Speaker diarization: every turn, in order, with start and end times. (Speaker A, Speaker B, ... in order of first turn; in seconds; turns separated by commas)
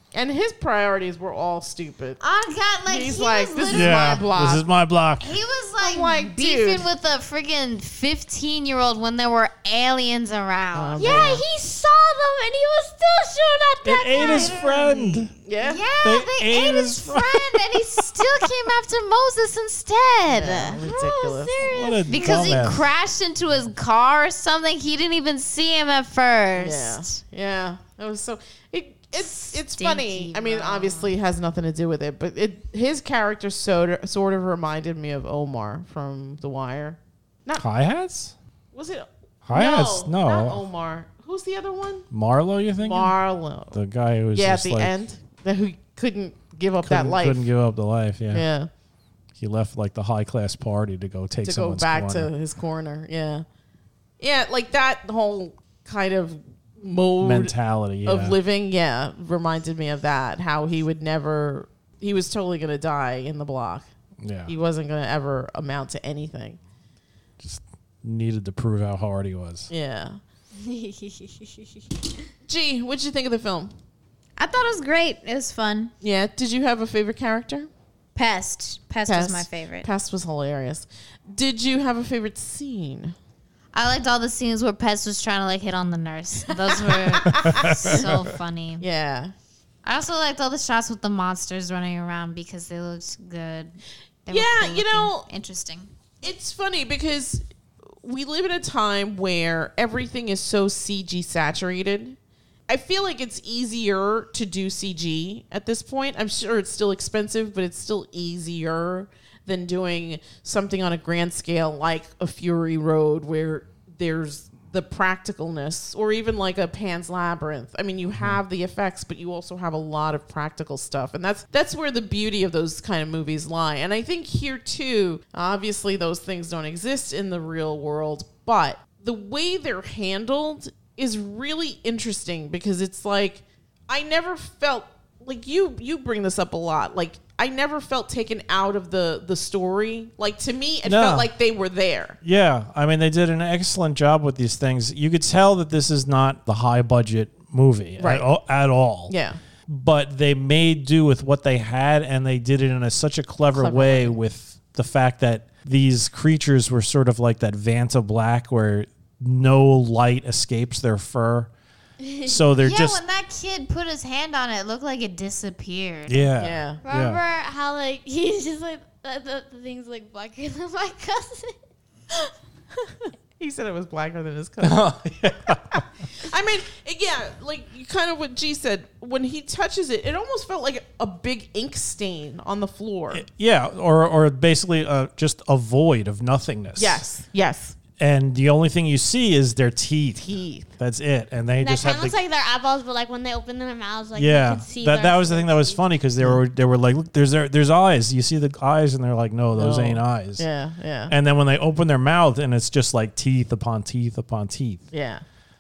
Speaker A: 0.1-2.2, Speaker B: 2.2-4.3, Speaker A: 2.9-4.7, Speaker C: 3.7-5.4, Speaker B: 5.2-11.4, Speaker A: 5.8-6.9, Speaker A: 10.7-11.4, Speaker D: 11.0-14.8, Speaker C: 13.8-15.3, Speaker B: 14.2-15.1, Speaker A: 15.4-15.8, Speaker B: 15.6-20.8, Speaker C: 16.0-18.2, Speaker A: 20.3-21.7, Speaker D: 20.8-22.5, Speaker C: 21.6-22.9, Speaker B: 22.1-27.1, Speaker A: 26.6-37.6, Speaker B: 29.3-31.1, Speaker C: 37.6-38.4, Speaker A: 38.7-42.1, Speaker C: 39.4-40.6, Speaker C: 42.1-43.1, Speaker A: 42.8-43.8, Speaker C: 43.7-45.0, Speaker A: 44.3-47.5, Speaker C: 46.8-48.5, Speaker A: 48.3-48.7, Speaker C: 49.4-52.3, Speaker A: 51.4-53.5, Speaker A: 54.2-63.9, Speaker C: 57.2-58.4, Speaker C: 64.2-64.5, Speaker A: 64.5-66.6, Speaker C: 67.4-69.7, Speaker A: 69.7-70.2, Speaker D: 70.6-71.8, Speaker A: 72.5-73.7, Speaker B: 74.4-75.9, Speaker A: 76.0-77.7, Speaker B: 78.2-79.9, Speaker A: 79.1-83.2, Speaker B: 83.7-88.9, Speaker A: 86.7-88.1, Speaker C: 87.3-88.3, Speaker A: 88.8-89.3, Speaker B: 89.8-95.9, Speaker A: 94.3-95.3, Speaker A: 96.2-97.4, Speaker A: 98.0-102.2, Speaker A: 102.7-142.2, Speaker C: 140.8-141.3, Speaker C: 142.2-149.1, Speaker A: 148.0-148.3, Speaker A: 149.1-149.4, Speaker C: 149.7-161.5, Speaker A: 153.5-154.2, Speaker D: 162.0-162.3, Speaker C: 162.2-163.0, Speaker B: 162.6-166.3, Speaker C: 166.1-167.2, Speaker A: 166.4-166.8, Speaker D: 166.8-171.6, Speaker A: 173.4-183.2, Speaker C: 174.6-175.8, Speaker C: 183.1-187.1, Speaker A: 186.8-187.8, Speaker C: 188.0-192.2, Speaker A: 190.2-190.7, Speaker D: 191.6-195.8, Speaker C: 194.2-200.4, Speaker A: 199.6-201.2, Speaker C: 201.1-204.8, Speaker A: 204.9-205.2